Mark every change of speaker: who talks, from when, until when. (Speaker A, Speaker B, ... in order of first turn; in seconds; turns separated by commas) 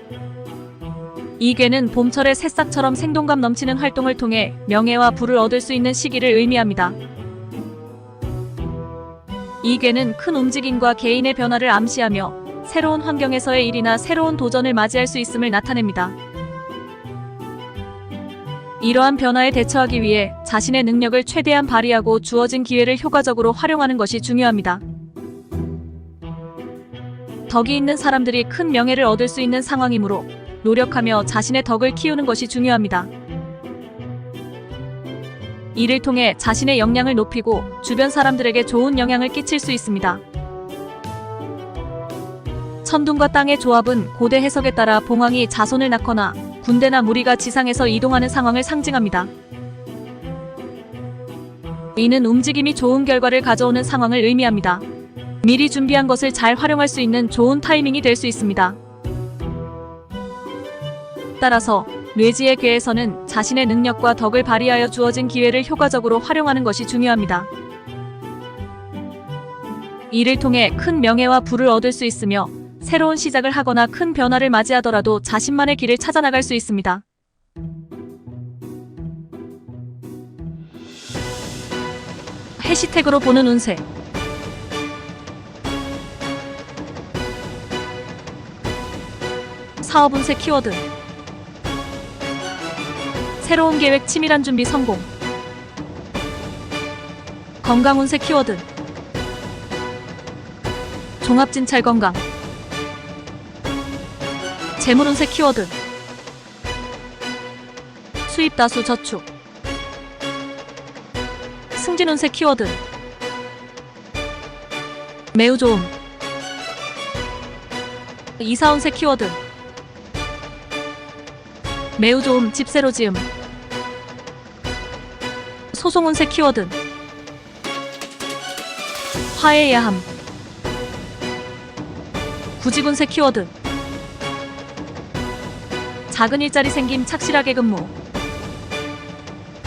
Speaker A: 1.4-7.0, Speaker A: 9.6-16.2, Speaker A: 18.8-24.8, Speaker A: 27.5-33.1, Speaker A: 35.7-40.2, Speaker A: 42.8-49.3, Speaker A: 52.0-54.8, Speaker A: 55.4-58.8, Speaker A: 61.4-67.5, Speaker A: 70.1-77.0, Speaker A: 82.6-83.8, Speaker A: 89.8-90.8, Speaker A: 93.4-95.1, Speaker A: 97.6-98.6, Speaker A: 101.2-102.2, Speaker A: 104.8-105.7, Speaker A: 108.3-109.2, Speaker A: 111.7-112.8, Speaker A: 115.3-115.9, Speaker A: 118.4-119.4, Speaker A: 122.0-123.3, Speaker A: 125.7-126.8, Speaker A: 129.3-130.1, Speaker A: 132.6-133.5, Speaker A: 136.1-137.9